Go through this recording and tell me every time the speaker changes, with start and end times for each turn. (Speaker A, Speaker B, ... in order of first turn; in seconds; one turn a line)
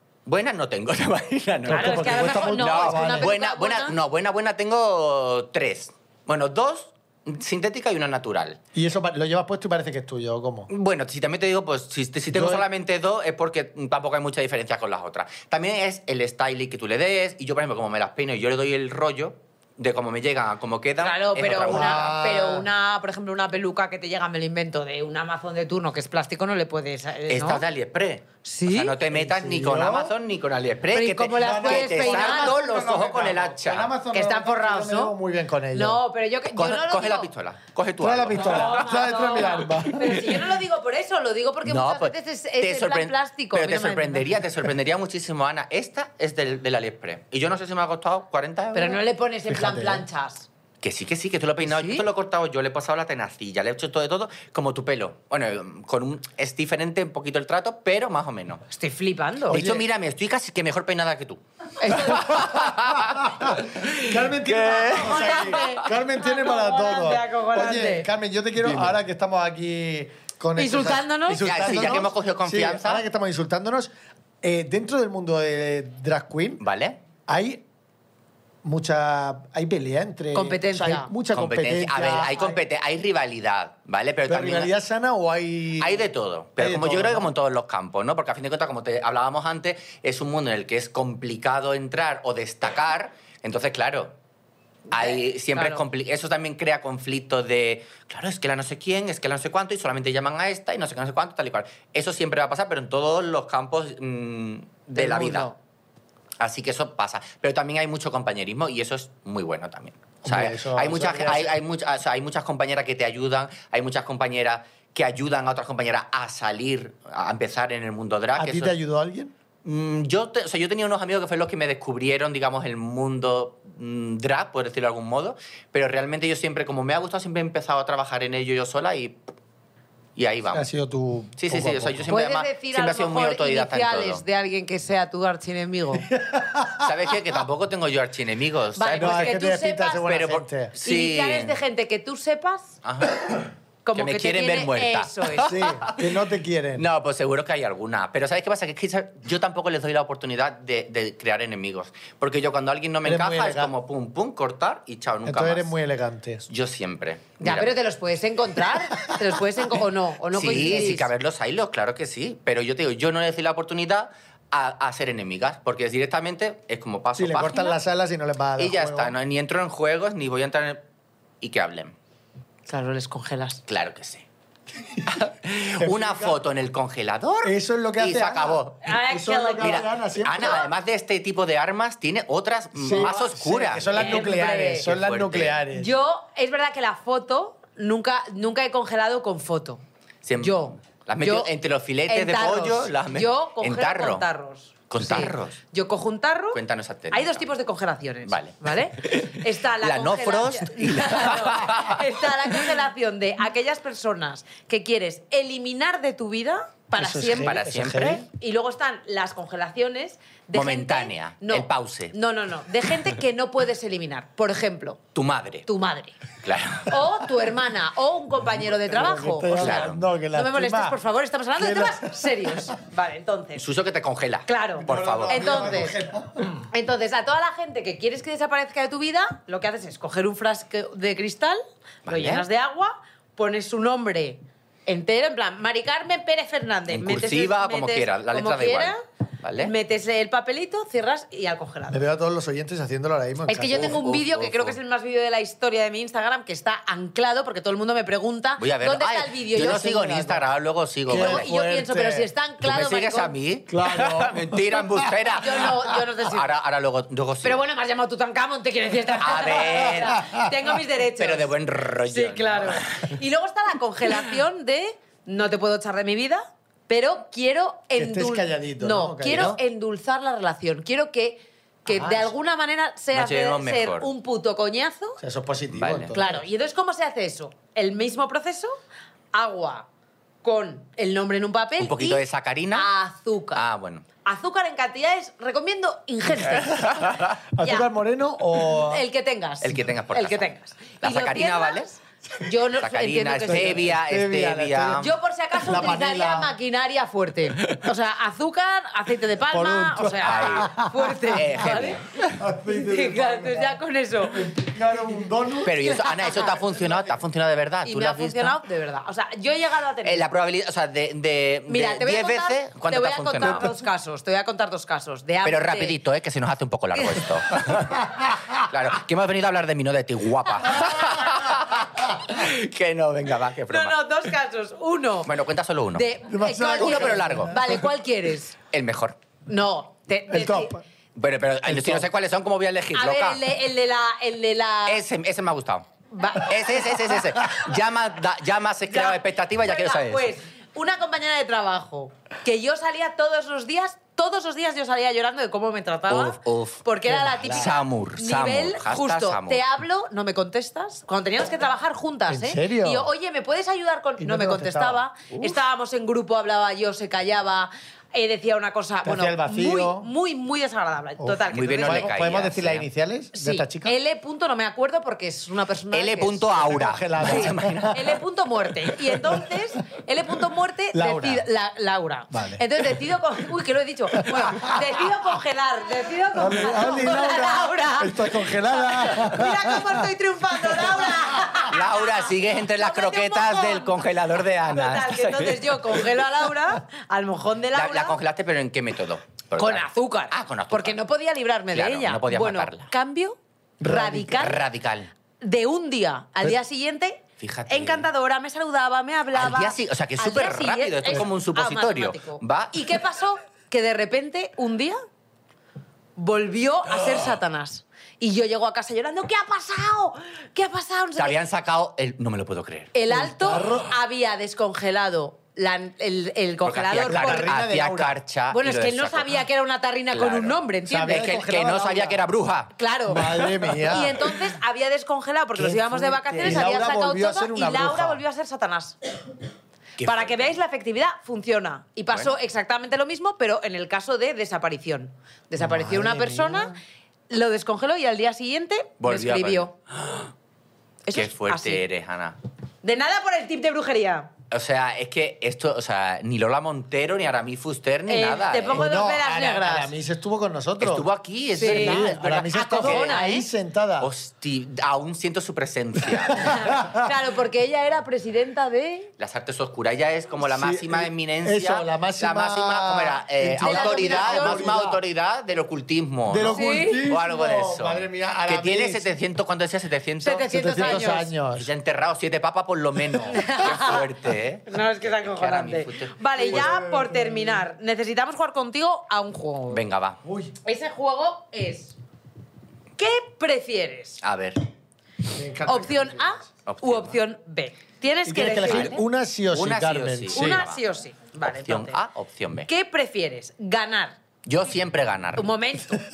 Speaker A: 0.3-8.6
Speaker B: 1.7-3.3
Speaker C: 1.7-4.0
Speaker B: 8.7-10.7
Speaker A: 10.7-22.2
Speaker B: 12.3-12.7
Speaker C: 21.0-27.6
Speaker B: 21.6-22.7
Speaker A: 27.3-33.9
Speaker C: 28.4-28.9
Speaker B: 29.1-30.1
Speaker C: 30.9-32.5
Speaker B: 31.4-36.0
Speaker C: 34.1-35.1
Speaker C: 35.7-37.3
Speaker A: 36.5-40.4
Speaker B: 38.0-40.1
Speaker C: 38.4-44.3
Speaker A: 41.7-49.0
Speaker C: 48.7-50.5
Speaker B: 49.5-50.1
Speaker A: 50.8-58.6
Speaker C: 51.6-52.0
Speaker C: 58.7-59.6
Speaker B: 59.5-59.9
Speaker A: 59.5-65.7
Speaker C: 61.8-62.4
Speaker B: 62.3-76.6
Speaker C: 65.0-68.1
Speaker A: 68.6-69.0
Speaker C: 70.6-72.0
Speaker A: 71.4-73.0
Speaker A: 76.6-77.0
Speaker B: 77.3-77.6
Speaker B: 78.6-82.6
Speaker C: 80.3-81.1
Speaker A: 81.3-84.7
Speaker B: 84.3-86.0
Speaker A: 85.8-94.2
Speaker B: 86.6-87.3
Speaker C: 94.9-95.8
Speaker A: 94.9-105.5
Speaker C: 104.9-105.5
Speaker A: 106.4-118.8
Speaker B: 110.2-111.6
Speaker B: 118.4-119.3
Speaker A: 119.7-129.2
Speaker A: 130.2-130.7
Speaker B: 130.5-132.2
Speaker A: 131.4-134.2
Speaker C: 132.1-136.1
Speaker B: 136.1-136.9
Speaker A: 136.8-139.4
Speaker C: 138.8-140.1
Speaker B: 138.9-140.7
Speaker A: 140.0-141.6
Speaker C: 140.8-142.8
Speaker A: 142.8-146.1
Speaker C: 143.8-145.5
Speaker B: 145.4-146.9
Speaker A: 146.8-155.7
Speaker B: 153.0-153.7
Speaker B: 155.2-156.5
Speaker A: 156.5-157.7
Speaker C: 157.4-161.1
Speaker A: 160.3-167.8
Speaker B: 167.2-169.2
Speaker A: 168.6-170.8
Speaker A: 171.4-171.9
Speaker C: 172.7-173.6
Speaker A: 173.7-174.2
Speaker A: 175.1-178.9
Speaker B: 175.8-176.4
Speaker B: 177.4-180.7
Speaker C: 178.8-179.9
Speaker A: 179.6-185.6
Speaker B: 182.8-185.9
Speaker C: 183.9-184.9
Speaker C: 185.7-189.8
Speaker A: 190.2-194.3
Speaker C: 190.4-191.5
Speaker C: 192.1-196.6
Speaker A: 194.9-195.6
Speaker A: 196.5-197.5
Speaker C: 197.1-207.6
Speaker A: 198.2-202.5
Speaker B: 206.9-208.3
Speaker A: 207.3-208.3
Speaker C: 208.3-215.0
Speaker A: 210.5-212.2
Speaker A: 215.2-215.7
Speaker C: 215.7-216.2
Speaker A: 216.4-217.1
Speaker C: 216.8-223.7
Speaker B: 218.7-221.0
Speaker A: 219.6-220.0
Speaker B: 221.6-222.7
Speaker A: 223.6-225.8
Speaker C: 224.5-226.0
Speaker B: 224.8-226.6
Speaker C: 226.7-239.0
Speaker A: 232.1-232.5
Speaker A: 236.9-239.7
Speaker C: 239.6-242.0
Speaker B: 241.9-244.0
Speaker C: 243.5-250.3
Speaker A: 243.7-244.8
Speaker A: 248.6-251.5
Speaker B: 249.6-250.4
Speaker B: 251.1-252.3
Speaker C: 251.1-253.3
Speaker A: 252.6-257.6
Speaker B: 253.7-255.4
Speaker C: 255.4-256.5
Speaker C: 257.4-261.5
Speaker A: 259.2-260.3
Speaker B: 259.8-260.5
Speaker A: 261.2-263.1
Speaker C: 262.1-275.2
Speaker B: 267.9-269.6
Speaker A: 269.3-269.6
Speaker A: 271.9-272.3
Speaker A: 273.1-274.1
Speaker B: 275.2-276.4
Speaker A: 275.7-276.2
Speaker C: 276.1-278.8
Speaker C: 279.3-279.9
Speaker C: 280.4-282.2
Speaker A: 281.8-282.9
Speaker C: 282.7-283.6
Speaker A: 283.6-284.1
Speaker C: 284.2-287.9
Speaker A: 286.5-287.4
Speaker B: 287.5-289.0
Speaker C: 288.7-293.8
Speaker A: 289.6-291.9
Speaker A: 292.8-295.1
Speaker B: 293.4-295.1
Speaker C: 295.0-302.0
Speaker B: 295.6-296.6
Speaker B: 299.5-301.6
Speaker A: 300.2-300.7
Speaker A: 301.3-302.3
Speaker B: 302.3-307.1
Speaker C: 302.7-304.5
Speaker A: 305.6-308.6
Speaker C: 306.1-306.5
Speaker C: 307.9-310.2
Speaker A: 310.0-313.7
Speaker C: 311.7-316.0
Speaker A: 315.4-324.3
Speaker C: 316.9-317.4
Speaker C: 323.7-325.3
Speaker A: 325.2-326.1
Speaker C: 325.9-328.6
Speaker B: 326.3-327.8
Speaker A: 326.7-327.7
Speaker A: 328.7-329.2
Speaker C: 329.5-330.8
Speaker B: 330.3-330.8
Speaker A: 331.2-333.4
Speaker B: 331.6-332.1
Speaker C: 332.9-335.0
Speaker A: 334.9-340.3
Speaker C: 336.1-337.0
Speaker C: 338.9-362.1
Speaker A: 346.1-346.8
Speaker B: 347.1-347.7
Speaker A: 347.5-349.6
Speaker B: 352.3-353.1
Speaker B: 354.2-355.0
Speaker A: 355.3-355.6
Speaker B: 359.0-360.1
Speaker B: 361.2-364.0
Speaker A: 361.5-362.9
Speaker C: 363.3-366.5
Speaker A: 365.9-368.2
Speaker B: 366.5-368.0
Speaker C: 367.2-384.0
Speaker B: 370.9-371.5
Speaker B: 372.3-372.7
Speaker B: 374.1-374.8
Speaker B: 376.4-380.1
Speaker A: 381.6-386.1
Speaker C: 384.7-388.2
Speaker A: 387.8-391.0
Speaker C: 389.6-394.6
Speaker A: 391.7-392.9
Speaker B: 393.8-394.5
Speaker A: 394.3-395.1
Speaker C: 395.4-405.0
Speaker A: 397.4-398.1
Speaker A: 399.3-403.0
Speaker C: 406.2-411.3
Speaker A: 411.2-412.9
Speaker C: 412.9-417.5
Speaker B: 413.1-413.9
Speaker A: 416.6-419.4
Speaker B: 417.0-418.2
Speaker C: 418.5-421.3
Speaker A: 420.1-422.7
Speaker B: 420.9-422.2
Speaker C: 422.8-429.0
Speaker B: 423.1-424.4
Speaker B: 425.6-428.2
Speaker A: 426.2-426.6
Speaker A: 430.0-430.6
Speaker C: 430.0-436.8
Speaker B: 435.6-436.8
Speaker C: 437.3-439.7
Speaker A: 439.0-440.3
Speaker C: 441.1-441.8
Speaker A: 441.1-442.4
Speaker C: 442.8-444.3
Speaker A: 444.5-448.9
Speaker C: 448.1-449.9
Speaker B: 448.7-451.1
Speaker A: 450.8-453.2
Speaker C: 451.6-453.5
Speaker B: 451.6-454.1
Speaker A: 454.0-456.6
Speaker B: 456.1-457.1
Speaker C: 456.4-459.1
Speaker A: 459.2-476.7
Speaker B: 460.4-465.0
Speaker C: 463.6-464.8
Speaker B: 466.3-469.1
Speaker C: 466.5-467.1
Speaker C: 470.2-471.3
Speaker B: 470.5-471.7
Speaker C: 473.3-474.1
Speaker C: 474.7-479.8
Speaker B: 476.4-477.6
Speaker A: 479.7-480.2
Speaker B: 480.2-480.5
Speaker C: 480.6-481.9
Speaker C: 483.0-484.2
Speaker A: 484.2-484.6
Speaker B: 485.3-486.5
Speaker C: 485.7-489.0
Speaker A: 486.7-487.2
Speaker B: 488.2-490.6
Speaker A: 489.5-490.8
Speaker C: 490.3-492.0
Speaker A: 491.4-492.7
Speaker C: 492.7-494.2
Speaker A: 494.5-495.5
Speaker C: 495.4-496.1